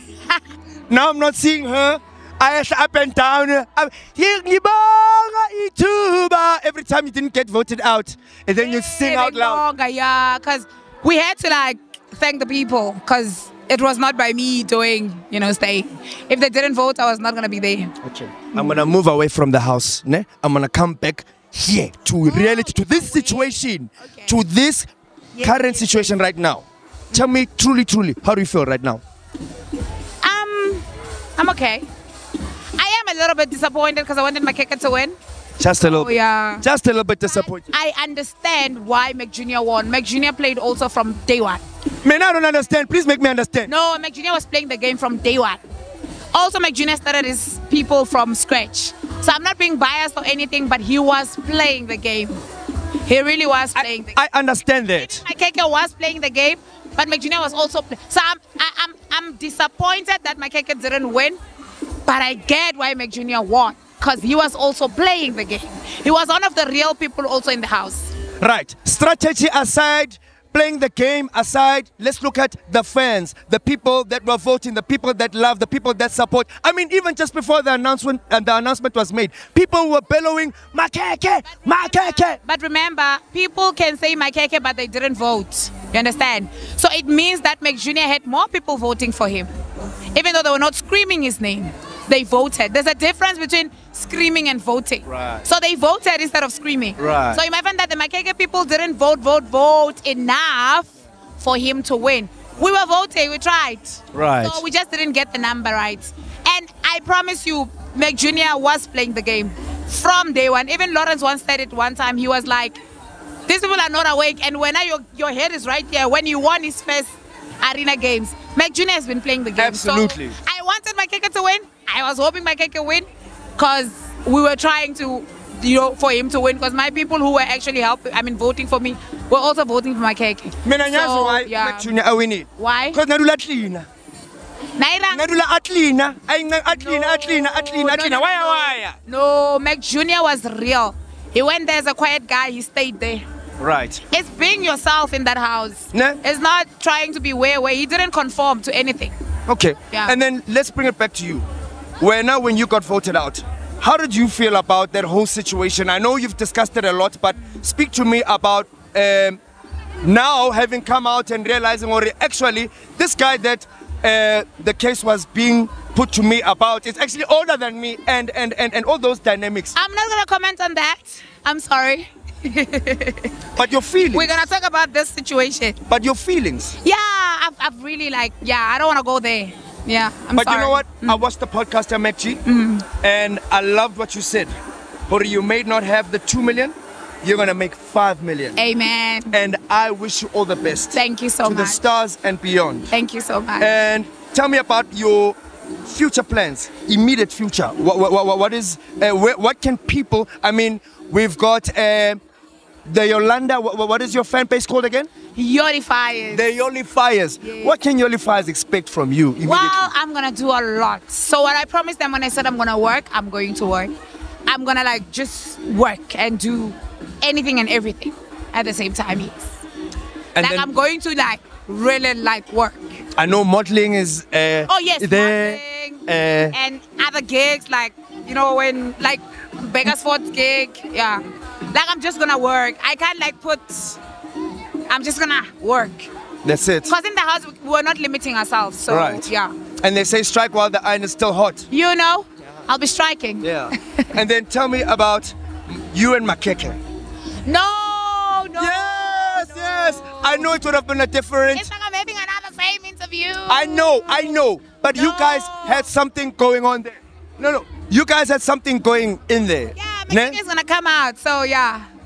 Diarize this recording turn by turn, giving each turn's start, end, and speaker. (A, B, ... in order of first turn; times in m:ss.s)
0:00.9-0:09.6 A
0:08.6-0:17.9 B
0:18.0-0:29.0 A
0:22.2-0:24.4 B
0:25.3-0:26.2 B
0:30.2-0:30.8 B
0:31.4-0:31.8 B
0:32.8-0:35.2 B
0:35.6-0:37.6 A
0:35.8-0:36.6 B
0:37.3-0:41.6 B
0:42.0-0:43.7 A
0:43.6-0:45.6 B
0:46.3-0:52.4 B
0:53.0-0:54.2 B
0:53.8-0:55.2 A
0:55.0-1:01.4 B
1:02.0-1:08.1 B
1:08.4-1:22.4 A
1:21.5-1:29.5 B
1:30.1-1:52.8 B
1:35.1-1:35.4 A
1:37.0-1:37.4 A
1:44.1-1:44.6 A
1:53.5-2:03.0 B
1:59.6-2:00.4 A
2:03.6-2:11.9 B
2:10.6-2:13.9 A
2:12.6-2:13.0 B
2:14.8-2:15.3 B
2:15.1-2:19.0 A
2:16.7-2:23.2 B
2:23.6-2:24.0 A
2:24.1-2:29.1 B
2:25.9-2:26.2 A
2:29.5-2:31.4 A
2:29.9-2:30.2 B
2:32.0-2:39.4 A
2:40.0-2:49.7 A
2:49.7-2:53.3 B
2:53.6-2:54.3 A
2:54.1-2:55.8 B
2:55.9-2:56.7 A
2:56.8-3:01.2 B
3:00.3-3:04.5 A
3:02.4-3:02.9 B
3:05.1-3:08.5 A
3:08.6-3:09.3 B
3:09.3-3:12.9 A
3:10.9-3:11.8 B
3:12.9-3:13.7 B
3:13.6-3:22.2 A
3:22.9-3:25.1 A
3:25.3-3:26.4 B
3:26.3-3:29.9 A
3:27.4-3:27.7 B
3:29.4-3:33.9 B
3:34.5-3:39.5 B
3:40.4-3:40.7 A
3:40.4-3:43.0 B
3:43.2-3:46.5 A
3:44.7-3:54.0 B
3:54.9-3:56.1 B
3:56.4-3:56.9 A
3:56.8-3:59.5 B
3:58.9-3:59.3 A
3:59.8-4:01.6 A
4:01.7-4:04.2 B
4:03.4-4:05.3 A
4:05.9-4:06.8 A
4:07.4-4:10.5 B
4:08.6-4:11.7 A
4:11.5-4:14.3 B
4:13.5-4:20.4 A
4:14.9-4:15.9 B
4:19.8-4:21.9 B